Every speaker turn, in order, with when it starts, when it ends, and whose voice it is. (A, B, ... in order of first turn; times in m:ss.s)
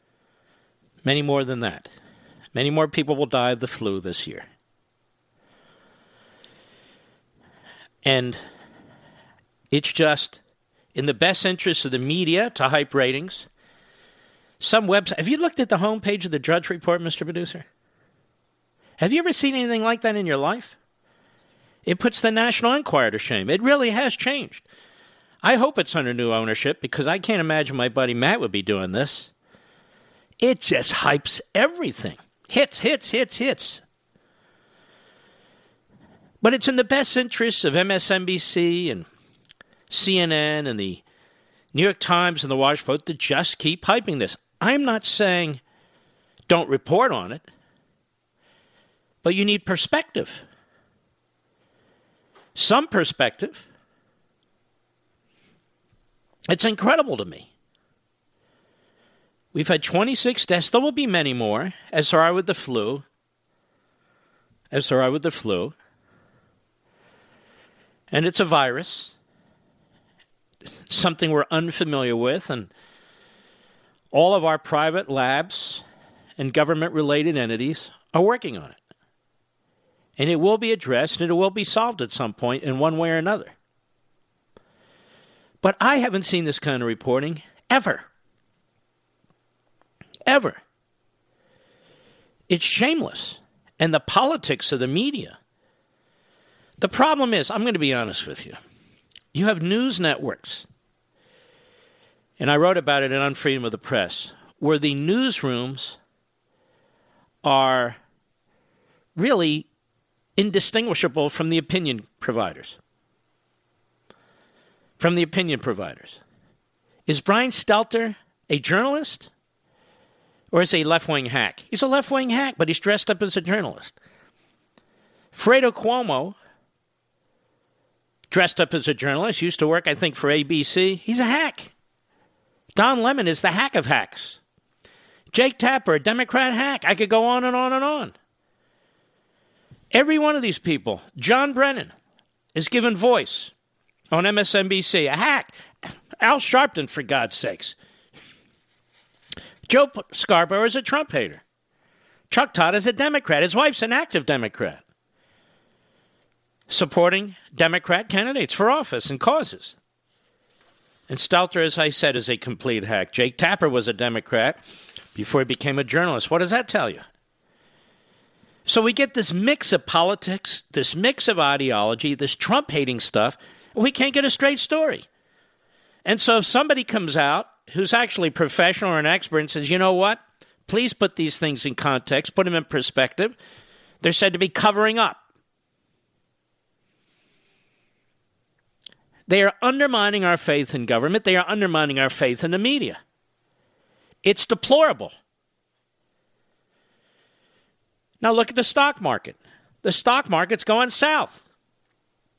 0:01.0-0:01.9 A
0:02.5-0:04.5 A
0:08.0-0:08.4 A
0:09.7-0:10.4 A
0:10.9-0:13.5 A
0:14.6-0:17.6 A
0:19.0-0:20.8 A
0:21.8-0:24.6 A
0:25.4-0:29.3 A
0:30.4-0:33.8 A
0:36.4-0:39.1 A
0:39.9-0:41.0 A
0:41.7-0:45.6 A
0:46.5-0:47.5 A
0:49.2-0:50.4 A
0:52.6-0:53.6 A
0:56.5-0:57.5 A
0:59.5-1:03.0 A
1:04.7-1:05.7 A
1:08.1-1:09.1 A
1:10.9-1:12.7 A
1:14.1-1:15.8 A
1:16.4-1:18.8 A
1:20.2-1:23.5 A
1:25.6-1:28.1 A
1:30.3-1:30.6 A
1:32.5-1:35.4 A
1:36.8-1:38.6 A
1:39.3-1:40.7 A
1:42.4-1:46.0 A
1:47.4-1:48.0 A
1:49.2-1:49.7 A
1:50.4-1:52.8 A
1:55.0-1:56.2 A
1:57.1-1:59.3 A
2:00.5-2:04.0 A
2:05.3-2:06.4 A
2:08.3-2:11.7 A
2:12.8-2:14.4 A
2:15.3-2:18.1 A
2:19.9-2:21.9 A
2:22.6-2:23.5 A
2:24.1-2:27.8 A
2:29.7-2:31.4 A
2:32.3-2:34.8 A
2:36.7-2:39.8 A
2:41.1-2:44.6 A
2:45.2-2:47.0 A
2:48.7-2:55.1 A
2:56.0-3:03.4 A
3:04.0-3:05.2 A
3:09.3-3:13.0 A
3:14.2-3:15.1 A
3:18.2-3:21.4 A